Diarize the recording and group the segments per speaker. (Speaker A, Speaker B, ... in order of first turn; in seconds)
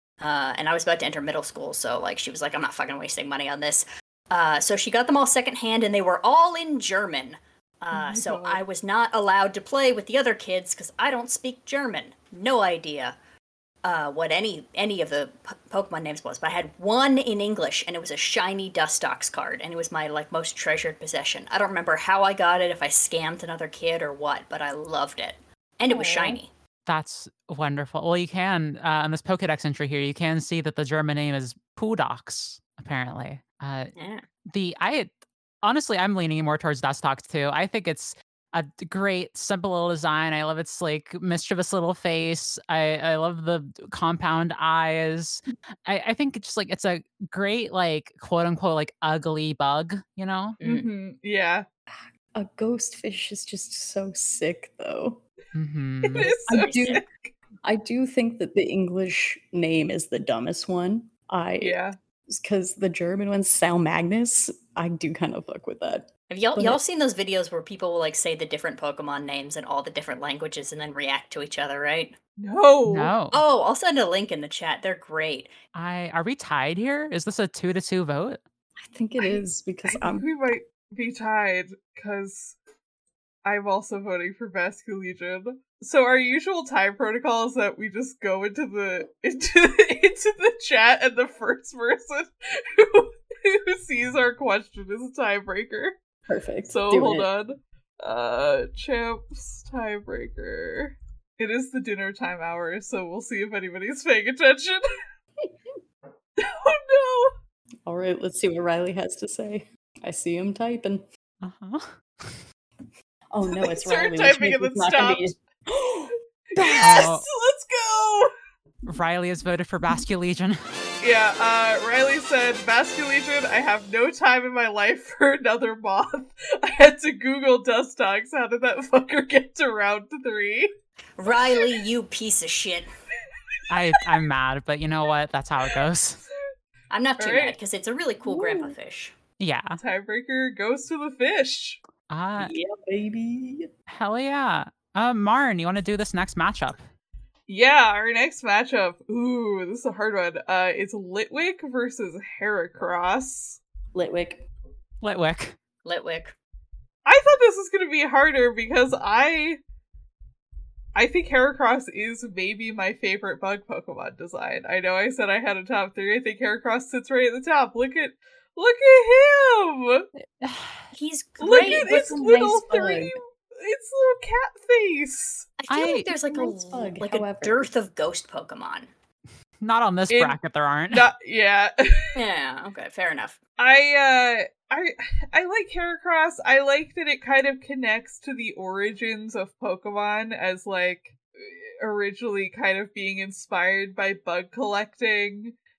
Speaker A: 0.2-13.2, 13.8-26.5, 34.0-34.2, 56.6-57.0, 66.3-72.2, 73.3-75.5, 131.2-132.9, 136.9-139.1, 155.8-156.3, 170.9-172.0, 175.6-178.9, 182.2-183.4
Speaker B: 7.9-8.6, 26.1-26.3, 50.6-51.7, 56.0-57.3, 61.6-62.0, 72.4-73.1, 79.2-82.6, 83.4-96.0, 96.7-104.8, 106.4-107.3, 113.6-115.3, 116.6-118.3, 121.0-130.7, 137.2-137.6, 139.8-141.8, 147.5-153.6, 157.1-159.6, 160.9-170.1, 171.4-175.5, 180.1-180.4, 180.9-182.1, 183.6-195.6
Speaker C: 25.9-26.4, 51.9-55.2, 56.5-57.0, 57.6-66.8, 78.8-80.3, 96.3-97.3, 105.4-105.8, 107.9-111.0, 113.3-117.1, 138.2-138.8, 142.4-143.7, 153.9-154.4, 171.5-173.2, 176.2-177.7
Speaker D: 26.9-33.9, 34.5-35.1, 35.6-50.6, 55.5-56.3, 72.9-73.4, 75.7-78.4, 111.4-112.4, 116.8-117.3, 118.8-120.6, 133.7-136.2, 139.4-139.8, 142.1-142.6, 143.9-146.8, 155.0-155.6, 170.4-170.8, 175.7-176.1, 179.6-181.1